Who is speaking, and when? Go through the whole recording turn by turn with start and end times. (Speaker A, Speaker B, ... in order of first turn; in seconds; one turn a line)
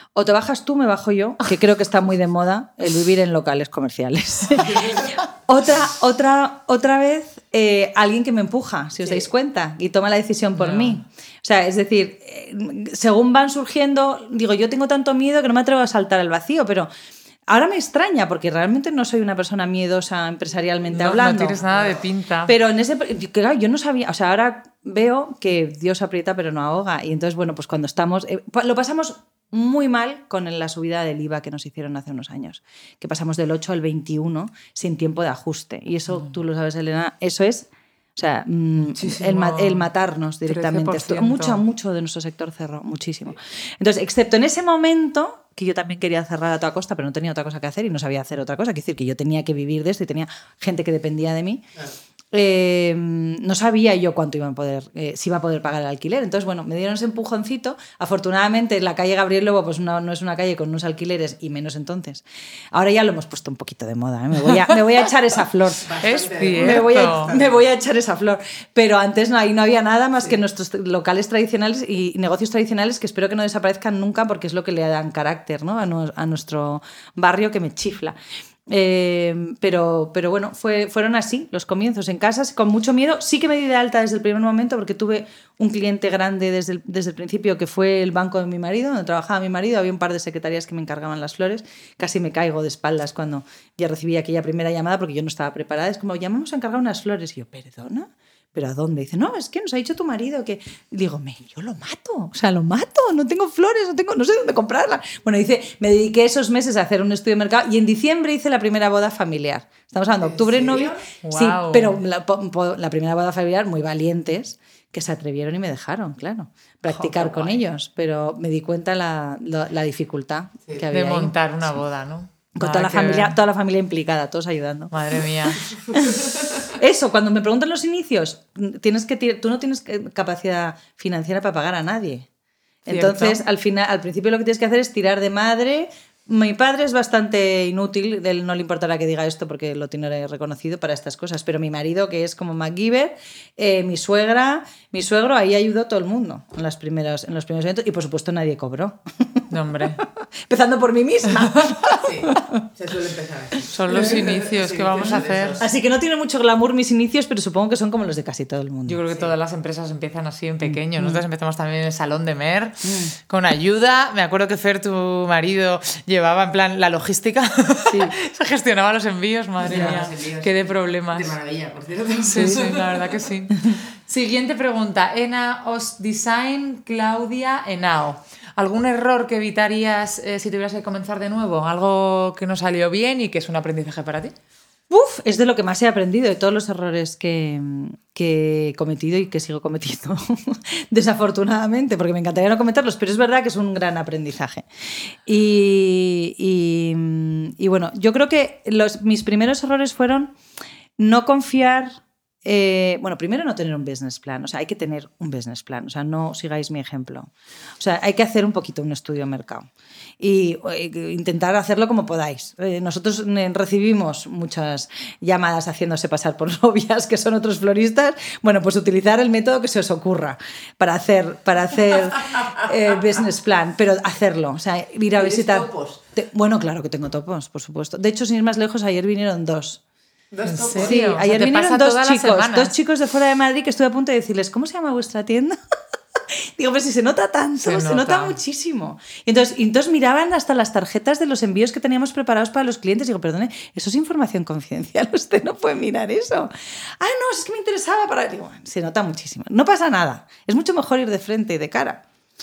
Speaker A: 0.1-16.9
Speaker B: 10.6-11.0
Speaker A: 17.5-21.7
Speaker B: 20.9-22.5
Speaker C: 21.7-22.0
Speaker A: 22.4-51.6
Speaker B: 38.9-39.9
Speaker B: 40.5-41.6
Speaker A: 52.3-66.0
Speaker C: 65.8-67.6
Speaker B: 66.0-67.3
Speaker A: 66.5-121.4
Speaker C: 110.2-111.0
Speaker B: 111.2-112.0
Speaker B: 116.9-117.6
Speaker B: 120.9-123.3
Speaker A: 122.5-132.3
Speaker B: 124.9-125.8
Speaker A: 132.8-149.5
Speaker B: 132.9-133.4
Speaker B: 149.5-150.0
Speaker A: 150.0-152.6
Speaker C: 151.9-155.7
Speaker B: 153.7-155.6
Speaker A: 155.6-159.0
Speaker B: 158.8-171.3
Speaker A: 160.7-161.2
Speaker A: 162.8-163.1
Speaker A: 167.9-168.1
Speaker C: 169.6-173.1
Speaker A: 169.7-170.0
Speaker B: 172.2-184.3
Speaker A: 172.3-172.6
Speaker A: 184.9-200.3
Speaker A: 201.0-201.9
Speaker A: 202.4-209.7
Speaker A: 210.2-229.8
Speaker C: 225.1-226.0
Speaker C: 230.3-231.1
Speaker B: 230.4-232.7
Speaker A: 230.8-235.6
Speaker A: 236.1-252.0
Speaker B: 237.6-238.3